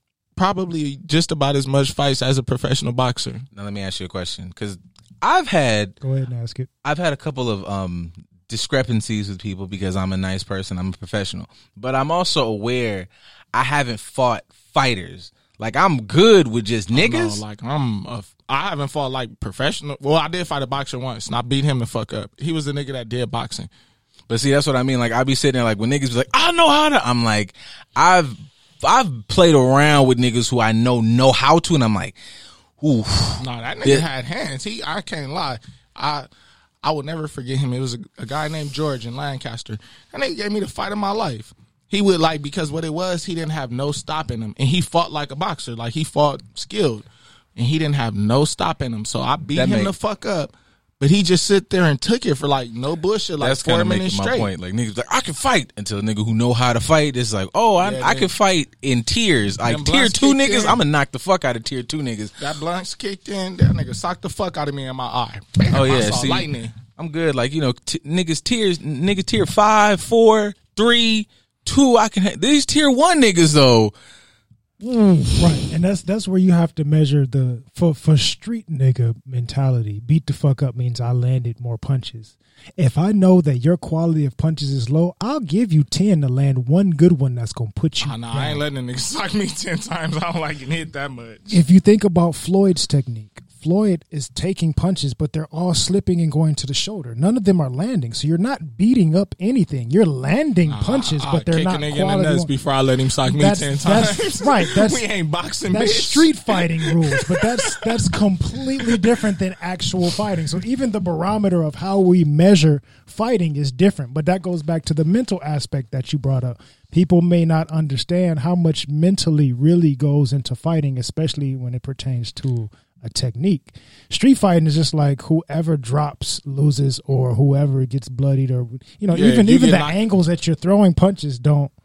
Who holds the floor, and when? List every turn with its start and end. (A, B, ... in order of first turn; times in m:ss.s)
0:00.4-0:03.4 A
0:03.5-0:06.0 B
0:06.0-0:06.7 C
0:06.8-0:17.4 B
0:16.9-0:23.7 A
0:24.3-0:32.2 B
0:32.8-0:34.0 B
0:33.4-0:36.3 A
0:36.8-0:54.5 A
0:49.5-0:49.9 B
0:53.4-1:02.4 B
0:57.8-0:58.3 A
0:59.6-1:00.8 A
1:02.4-1:06.8 A
1:05.7-1:14.0 B
1:15.2-1:28.6 C
1:28.0-1:31.6 A
1:31.5-1:42.5 C
1:40.7-1:48.0 A
1:43.3-1:45.0 C
1:45.7-2:11.7 C
1:48.8-1:49.1 A
2:09.1-2:10.1 A